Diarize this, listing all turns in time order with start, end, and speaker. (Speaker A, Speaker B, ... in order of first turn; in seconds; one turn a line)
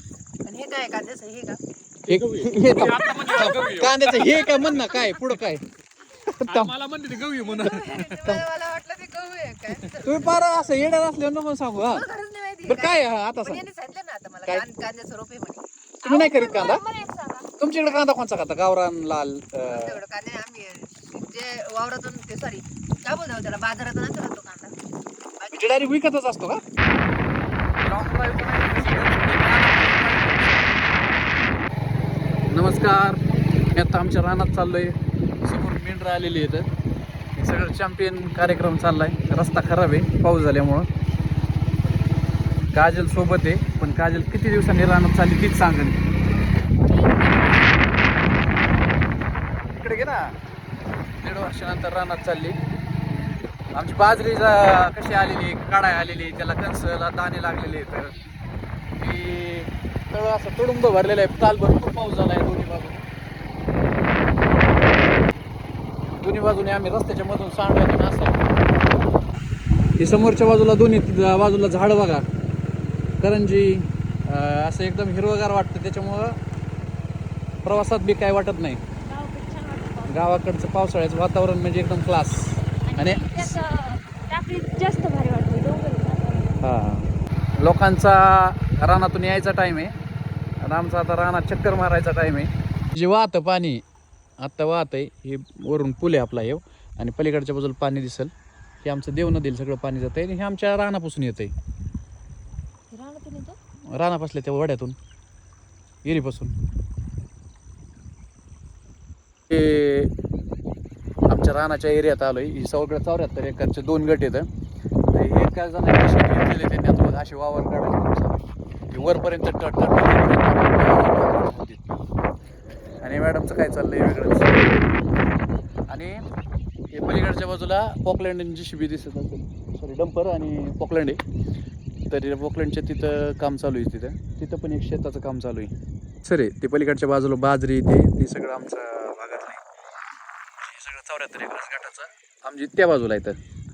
Speaker A: 0.5-1.6
Speaker B: 2.1-5.4
Speaker C: 2.1-5.6
Speaker A: 2.9-5.1
Speaker C: 6.1-6.8
Speaker B: 6.5-8.3
Speaker A: 7.6-10.7
Speaker C: 7.6-8.4
Speaker C: 10.0-12.0
Speaker A: 11.8-15.6
Speaker C: 12.7-13.6
Speaker C: 16.0-16.8
Speaker D: 16.0-17.5
Speaker C: 17.6-20.0
Speaker A: 19.7-24.7
Speaker A: 25.4-25.9
Speaker C: 25.5-26.6
Speaker C: 27.8-30.8
Speaker C: 32.5-36.7
Speaker C: 37.4-40.9
Speaker C: 42.7-46.0
Speaker D: 46.7-47.8
Speaker C: 49.8-50.4
Speaker C: 51.2-52.6
Speaker C: 53.7-58.2
Speaker C: 59.0-63.0
Speaker C: 66.2-68.5
Speaker C: 70.0-72.2
Speaker C: 73.2-76.4
Speaker C: 77.6-78.8
Speaker D: 79.1-80.3
Speaker C: 80.1-83.6
Speaker D: 82.9-86.6
Speaker C: 86.6-89.9
Speaker C: 90.6-93.8
Speaker C: 94.4-98.3
Speaker C: 98.8-101.5
Speaker D: 102.9-103.6
Speaker C: 103.9-105.0
Speaker C: 106.0-106.5
Speaker C: 109.5-110.1
Speaker C: 111.3-114.5
Speaker C: 115.1-121.8
Speaker C: 123.0-124.7
Speaker C: 125.9-126.2
Speaker C: 126.9-131.2
Speaker C: 132.1-135.7
Speaker C: 136.2-139.6
Speaker C: 140.6-143.4